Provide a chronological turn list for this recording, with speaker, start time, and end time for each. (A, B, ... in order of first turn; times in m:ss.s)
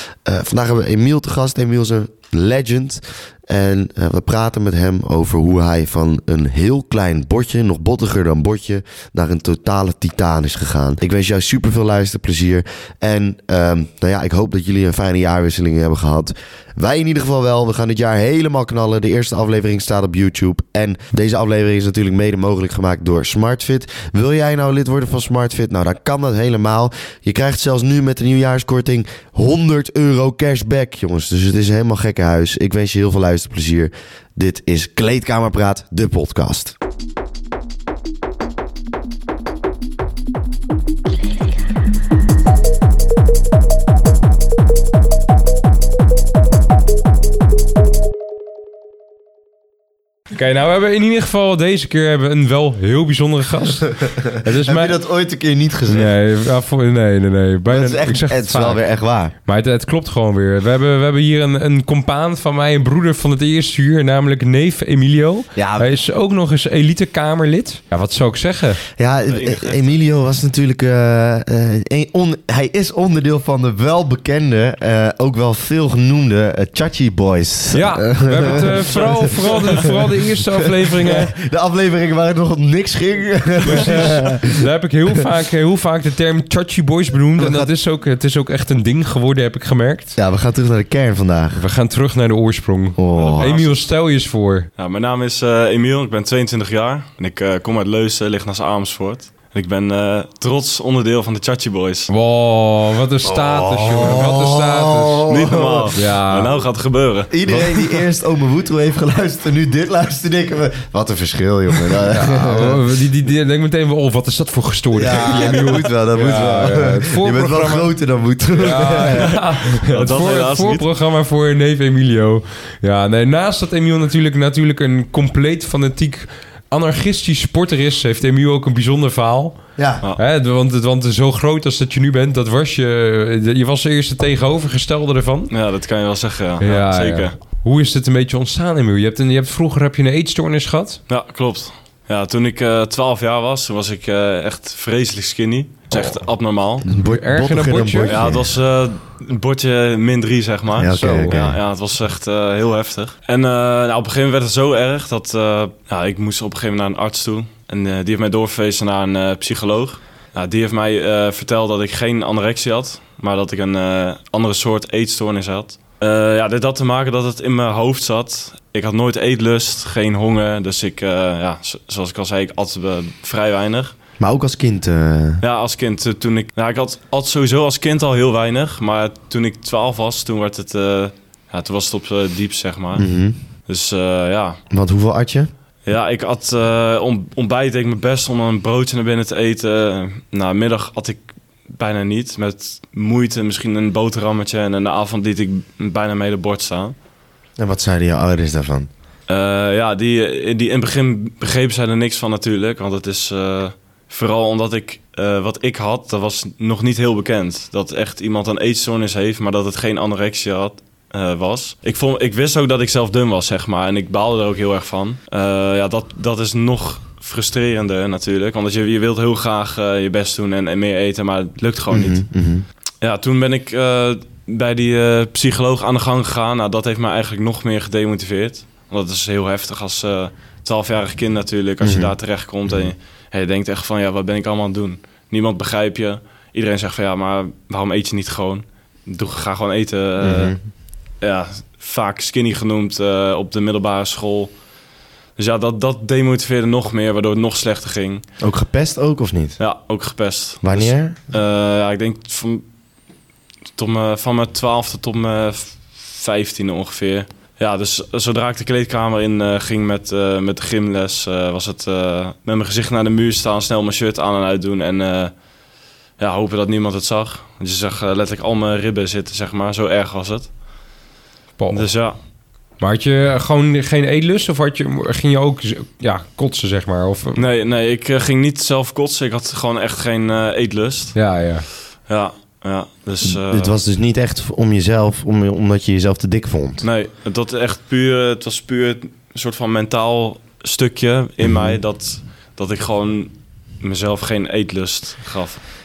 0:00.2-0:36.7 A
0:50.3-0:55.0 B
0:54.4-0:56.1 A
0:55.9-1:08.8 B
0:57.7-0:59.3 A
1:05.6-1:05.9 A
1:09.0-1:19.9 A
1:09.3-1:09.8 C
1:17.7-1:21.3 B
1:18.5-1:20.0 C
1:20.4-1:24.6 A
1:23.7-1:30.2 B
1:27.4-1:27.7 A
1:30.2-1:31.6 A
1:31.6-1:34.7 B
1:33.0-1:33.5 A
1:33.1-1:33.8 C
1:34.8-1:42.1 C
1:42.1-1:45.3 B
1:43.2-1:45.9 A
1:45.3-1:48.0 C
1:45.9-1:46.6 B
1:47.3-1:52.8 A
1:52.1-1:57.9 B
1:54.9-1:59.4 A
1:58.6-2:15.5 B
1:59.3-2:00.8 C
2:09.8-2:10.0 A
2:15.5-2:17.4 C
2:16.6-2:21.0 B
2:21.1-2:26.8 C
2:26.8-2:28.5 A
2:26.9-2:28.3 B
2:28.1-2:53.9 C
2:30.8-2:31.6 A
2:30.9-2:31.5 B
2:54.2-2:55.4 A
2:55.4-3:04.6 C
3:03.0-3:03.4 A
3:04.7-3:05.5 A
3:05.8-3:16.9 C
3:17.6-3:18.9 A
3:19.3-3:42.3 C
3:41.9-3:42.6 A
3:43.0-4:00.7 C
3:51.8-3:52.1 A
4:00.2-4:00.6 A
4:01.2-4:04.5 C
4:05.4-4:08.2 C
4:08.4-4:09.6 A
4:09.6-4:12.6 C
4:10.6-4:11.2 A
4:13.8-4:25.4 C
4:26.2-4:30.5 C
4:31.6-4:31.9 B
4:31.7-4:32.2 C
4:32.8-4:37.4 B
4:37.4-4:41.3 C
4:41.1-4:41.7 B
4:42.0-4:43.7 C
4:43.2-4:46.8 A
4:46.8-4:55.6 C
4:51.4-4:51.8 A